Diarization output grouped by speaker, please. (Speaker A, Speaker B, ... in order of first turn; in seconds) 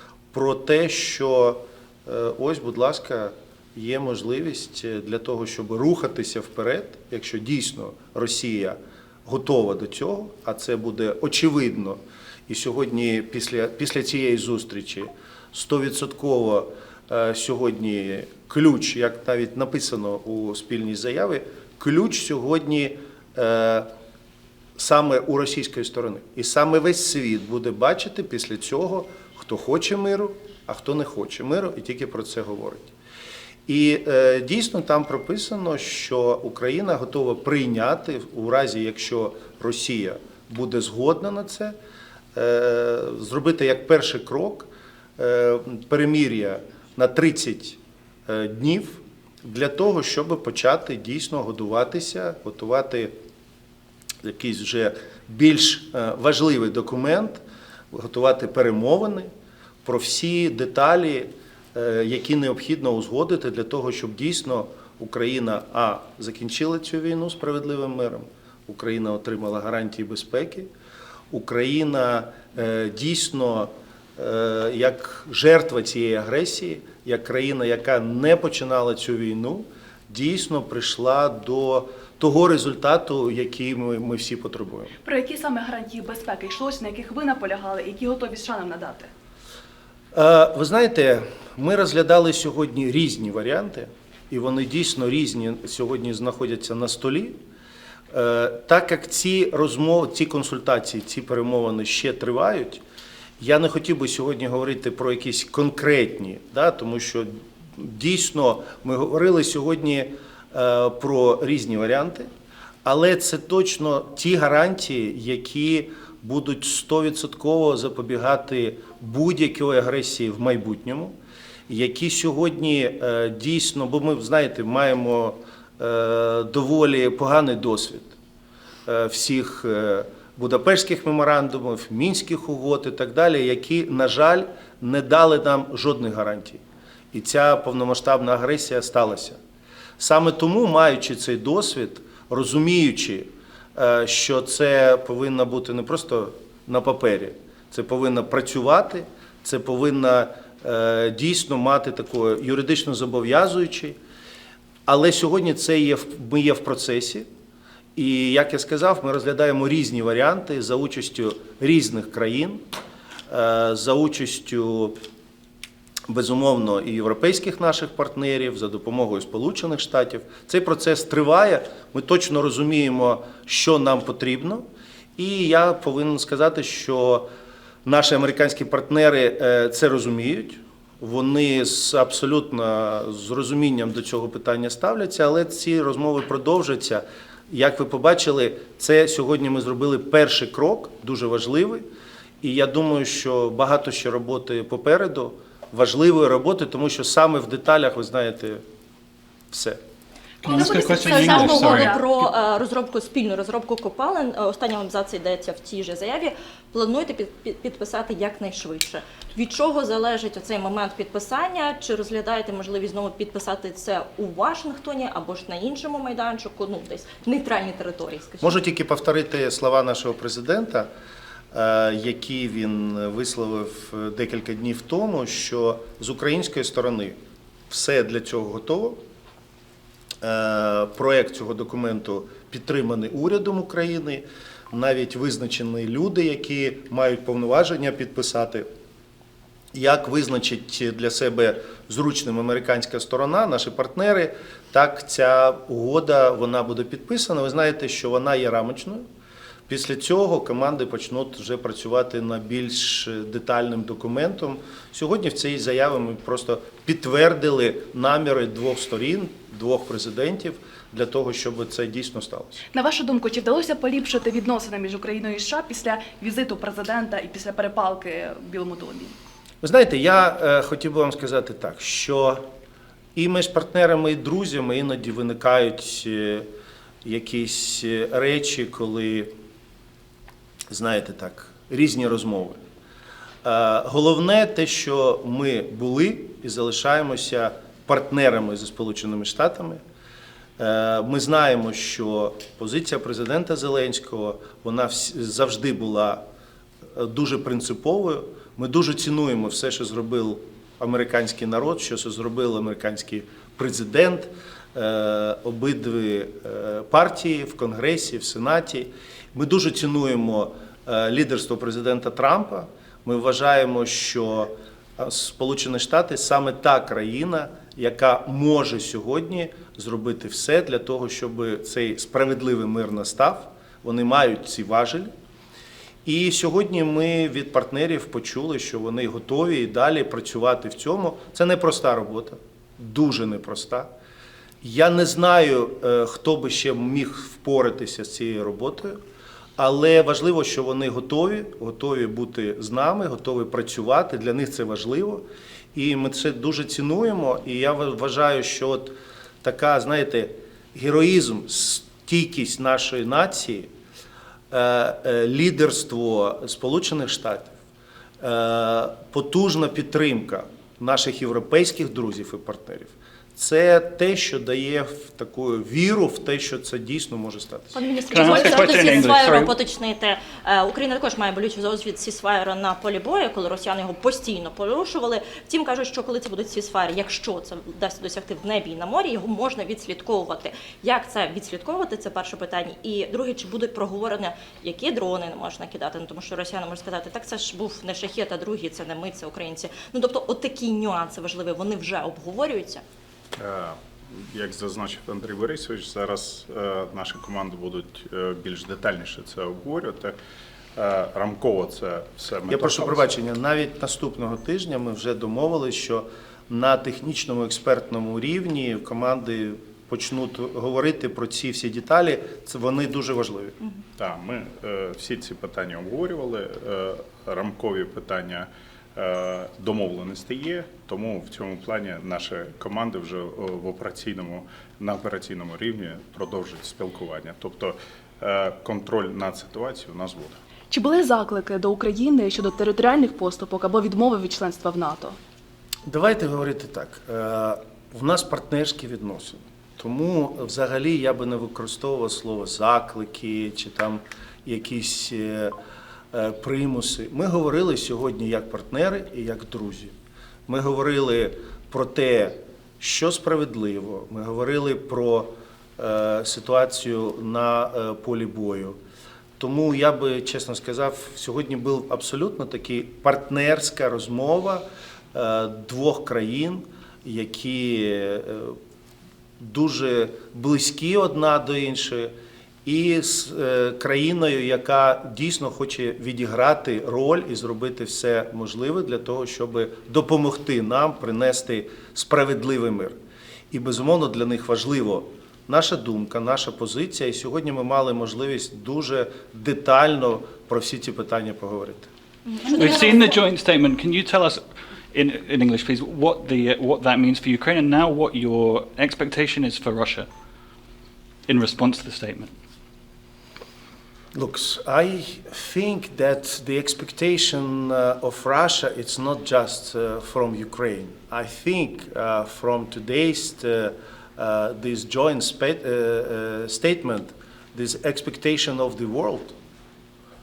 Speaker A: 0.3-23.9, 24.8-32.9, 33.7-41.8, 42.4-53.1, 54.2-59.3, 59.8-70.7, 71.3-84.9, 90.1-97.4, 98.1-102.8, 103.4-112.3, 112.8-121.2, 121.7-128.2, 128.9-136.6, 137.1-139.4, 140.0-154.0, 154.9-157.3, 158.0-162.7, 163.3-164.9, 166.1-174.7, 175.2-177.3, 177.8-191.8, 192.4-198.6, 199.5-199.8, 218.4-220.9, 221.5-227.2, 227.7-229.0, 230.2-238.7, 239.7-249.0, 249.7-262.6, 269.6-272.4, 273.1-276.5, 277.0-279.3, 280.7-282.6, 283.4-289.8, 290.6-296.2, 297.0-325.1, 326.1-333.9, 334.6-339.0, 339.6-353.7, 354.5-357.6, 358.2-367.8, 368.3-368.7, 402.5-413.6, 435.9-445.5, 446.1-449.9, 450.5-458.8, 459.4-468.6, 469.4-472.1, 472.6-482.9, 483.5-491.9, 504.1-519.4
Speaker B: 85.0-89.1, 200.4-202.1, 262.7-269.2, 430.7-435.2
Speaker C: 200.5-218.6, 367.7-392.8, 492.3-493.2
Speaker D: 368.1-369.5, 492.5-494.4, 494.9-500.1, 501.3-502.3
Speaker E: 393.4-400.2, 400.8-403.1, 414.0-430.4